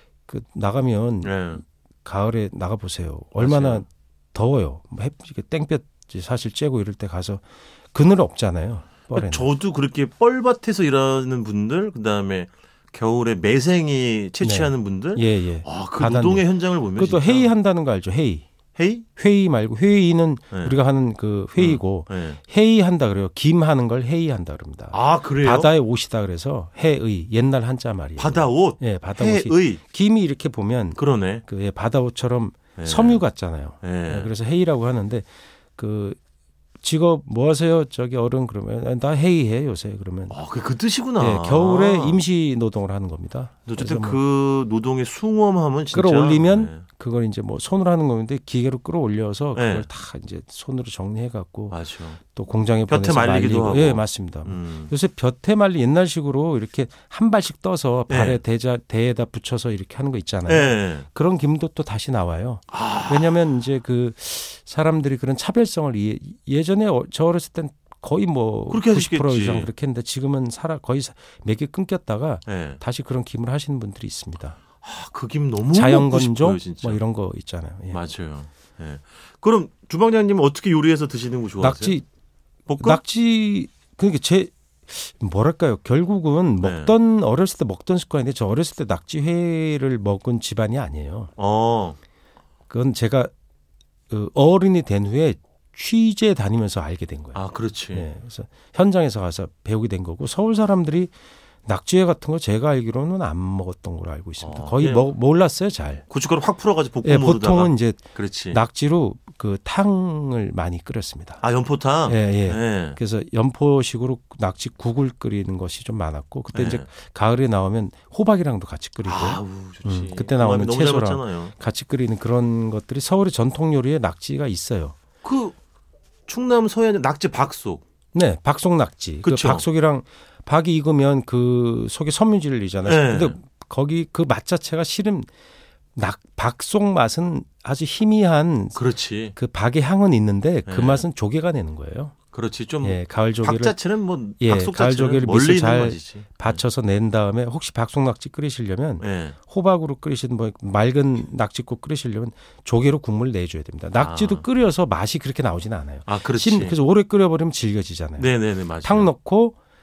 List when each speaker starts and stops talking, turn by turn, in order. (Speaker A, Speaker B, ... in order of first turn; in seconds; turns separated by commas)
Speaker A: 0.3-9.5, Speaker B: 1.2-1.6, Speaker B: 3.4-3.8, Speaker B: 9.1-17.5, Speaker A: 14.4-18.4, Speaker B: 18.8-19.1, Speaker A: 19.1-36.2, Speaker B: 21.6-22.4, Speaker B: 24.9-25.7, Speaker B: 28.2-29.8, Speaker B: 30.9-31.4, Speaker B: 32.8-33.2, Speaker B: 33.8-34.3, Speaker A: 36.8-40.4, Speaker B: 40.3-42.2, Speaker A: 41.1-44.2, Speaker B: 43.7-46.8, Speaker A: 45.9-74.6, Speaker B: 49.5-49.9, Speaker B: 51.7-52.2, Speaker B: 52.9-54.9, Speaker B: 58.1-58.4, Speaker B: 60.5-61.1, Speaker B: 62.7-63.5, Speaker B: 68.7-69.7, Speaker B: 72.5-72.8, Speaker B: 74.8-77.0, Speaker A: 75.7-78.0, Speaker B: 77.9-82.0, Speaker A: 81.6-82.0, Speaker B: 82.7-83.0, Speaker A: 82.8-91.3, Speaker B: 86.6-86.9, Speaker B: 91.4-92.0, Speaker A: 92.7-93.3, Speaker A: 94.1-101.1, Speaker B: 97.3-98.1, Speaker A: 101.6-106.0, Speaker B: 104.4-105.1, Speaker B: 106.1-108.6, Speaker A: 107.0-111.4, Speaker B: 111.4-113.0, Speaker A: 112.1-125.0, Speaker B: 116.5-116.8, Speaker B: 119.0-121.5, Speaker B: 125.2-125.5, Speaker B: 126.3-127.8, Speaker A: 128.1-135.3, Speaker B: 129.2-129.7, Speaker B: 132.8-133.4, Speaker A: 135.9-138.8, Speaker B: 138.7-139.3, Speaker A: 139.3-142.1, Speaker B: 140.7-141.1, Speaker B: 142.3-146.6, Speaker A: 142.8-143.8, Speaker A: 144.4-159.6, Speaker B: 149.0-149.3, Speaker B: 153.9-154.4, Speaker B: 156.1-156.8, Speaker B: 158.2-159.1